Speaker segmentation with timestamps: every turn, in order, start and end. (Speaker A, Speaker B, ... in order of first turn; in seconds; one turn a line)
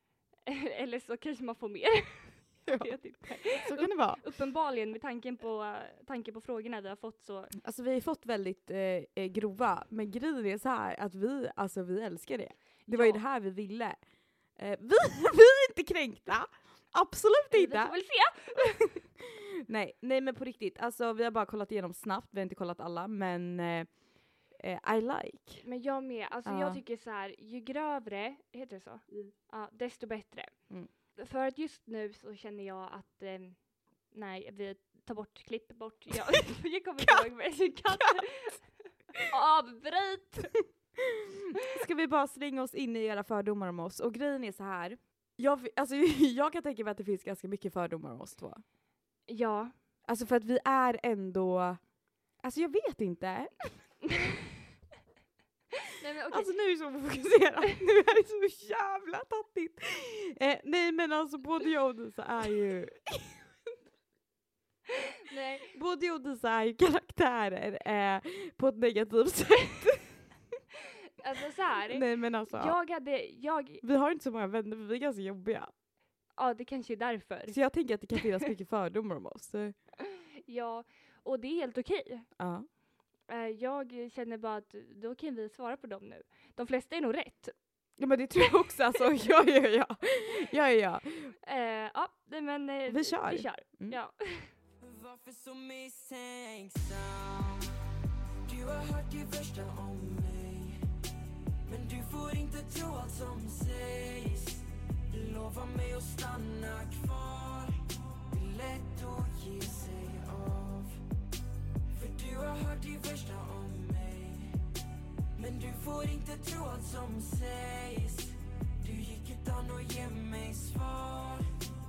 Speaker A: 0.5-7.5
Speaker B: 2.7-4.2
Speaker B: 7.6-14.0
Speaker A: 12.9-13.2
Speaker B: 14.6-18.0
Speaker A: 17.5-18.9
Speaker B: 18.6-23.9
Speaker B: 24.5-25.7
Speaker A: 25.6-40.6
Speaker B: 26.4-26.8
Speaker B: 41.0-48.6
Speaker A: 49.3-49.7
Speaker B: 50.1-51.8
Speaker B: 52.4-53.5
Speaker A: 55.9-56.5
Speaker B: 56.3-63.4
Speaker A: 65.3-65.7
Speaker B: 65.7-70.2
Speaker A: 71.2-73.8
Speaker B: 71.9-72.8
Speaker B: 73.8-75.7
Speaker A: 76.4-77.6
Speaker B: 77.5-79.8
Speaker A: 80.1-82.3
Speaker B: 82.4-82.7
Speaker A: 83.3-87.5
Speaker B: 88.0-91.3
Speaker A: 91.4-94.5
Speaker B: 92.9-94.0
Speaker C: 94.8-97.8
Speaker C: 98.5-100.8
Speaker C: 101.7-107.8
Speaker C: 108.3-111.0
Speaker C: 111.9-114.6
Speaker C: 115.4-121.5